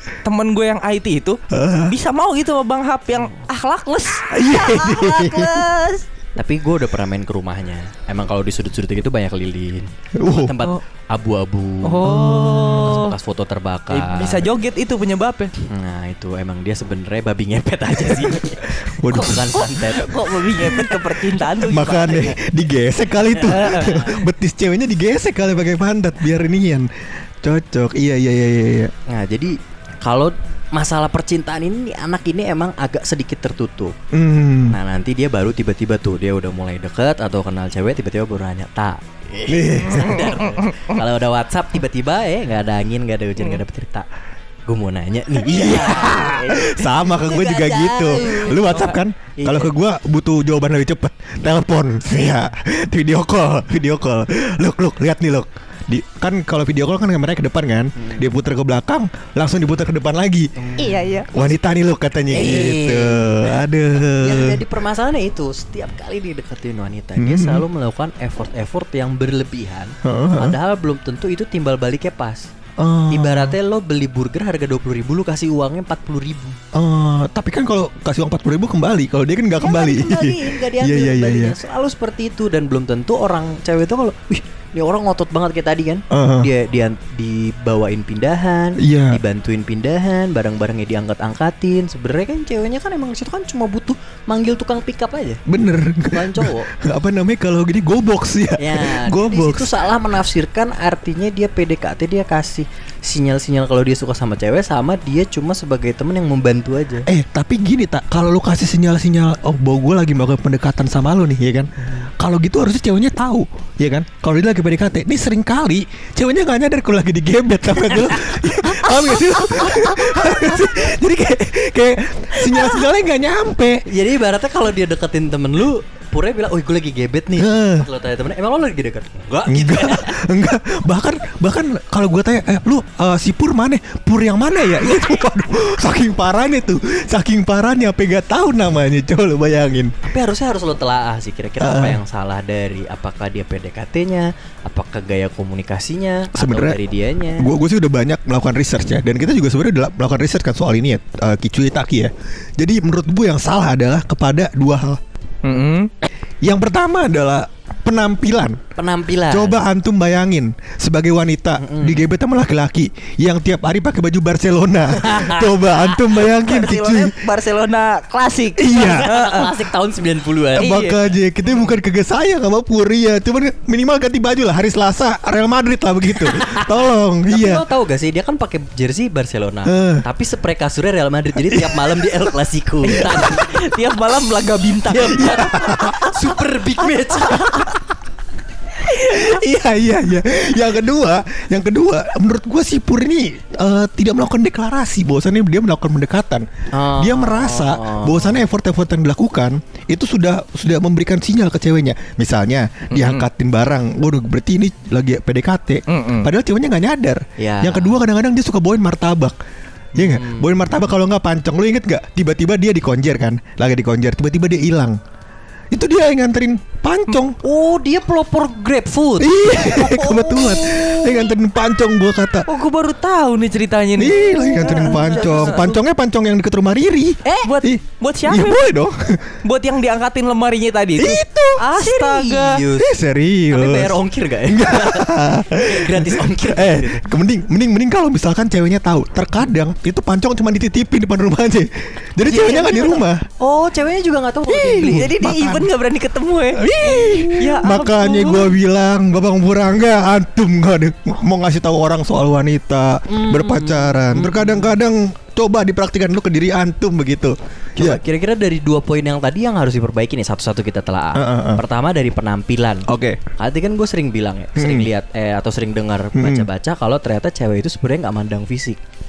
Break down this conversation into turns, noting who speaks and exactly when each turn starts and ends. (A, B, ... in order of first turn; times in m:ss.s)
0:00.2-0:06.0 A
0:01.5-0:01.9 B
0:04.3-0:05.6 B
0:06.4-0:12.0 C
0:10.1-0:10.6 B
0:11.8-0:13.1 A
0:12.0-0:13.0 B
0:12.7-0:14.4 C
0:13.9-0:15.5 A
0:15.7-0:20.2 C
0:18.3-0:19.6 B
0:19.1-0:22.4 A
0:20.6-0:21.0 B
0:21.6-0:26.9 B
0:23.4-0:23.9 C
0:23.4-0:24.2 A
0:27.4-0:28.9 B
0:29.1-0:33.9 C
0:34.1-0:34.8 B
0:34.7-0:44.0 C
0:39.5-0:40.5 B
0:40.4-0:40.9 A
0:44.6-0:49.7 C
0:45.4-1:00.8 B
0:58.0-0:58.3 C
1:00.6-1:01.0 C
1:00.8-1:01.3 A
1:01.3-1:04.6 B
1:02.3-1:03.5 C
1:04.2-1:12.5 C
1:07.2-1:07.6 B
1:10.0-1:10.6 B
1:12.8-1:13.6 B
1:13.1-1:16.6 C
1:16.7-1:21.6 B
1:19.6-1:35.4 C
1:26.1-1:26.5 B
1:28.8-1:29.2 B
1:35.5-1:39.7 B
1:36.0-1:36.7 C
1:38.6-1:47.1 C
1:47.1-2:03.8 B
1:58.7-2:00.5 C
2:02.4-2:02.8 C
2:03.9-2:10.2 C
2:07.4-2:07.9 B
2:09.4-2:19.9 B
2:20.0-2:27.5 C
2:21.6-2:22.0 B
2:26.3-2:26.8 B
2:27.4-2:35.0 B
2:35.4-2:35.9 A
2:36.4-2:38.6 B
2:38.7-2:39.6 C
2:39.3-2:47.2 B
2:41.6-2:42.1 C
2:45.0-2:45.6 C
2:46.0-2:49.6 A
2:48.6-2:49.2 B
2:48.7-2:50.7 C
2:50.5-2:51.1 A
2:50.6-2:57.6 B
2:56.1-3:03.6 C
2:59.6-3:00.0 B
3:01.4-3:02.1 B
3:02.8-3:05.9 A
3:04.9-3:07.7 C
3:05.0-3:06.2 B
3:07.2-3:07.8 A
3:08.9-3:29.4 B
3:08.9-3:09.4 A
3:16.7-3:18.4 C
3:22.9-3:23.3 A
3:25.9-3:26.3 A
3:27.4-3:28.0 C
3:29.9-3:30.7 C
3:30.0-3:35.0 B
3:35.7-3:37.4 B
3:37.4-3:41.2 C
3:39.2-3:42.5 B
3:42.4-3:45.7 A
3:44.0-3:49.4 B
3:44.2-3:45.8 C
3:47.4-3:48.6 A
3:49.4-3:52.6 A
3:51.0-3:51.6 B
3:51.6-3:52.9 C
3:52.7-4:03.2 B
3:53.5-3:57.0 C
4:02.2-4:05.1 C
4:04.5-4:05.7 B
4:04.7-4:08.5 A
4:06.5-4:18.0 B
4:13.1-4:14.7 C
4:17.8-4:28.8 C
4:21.1-4:21.6 B
4:22.9-4:23.2 B
4:24.6-4:24.9 B
4:26.1-4:26.5 B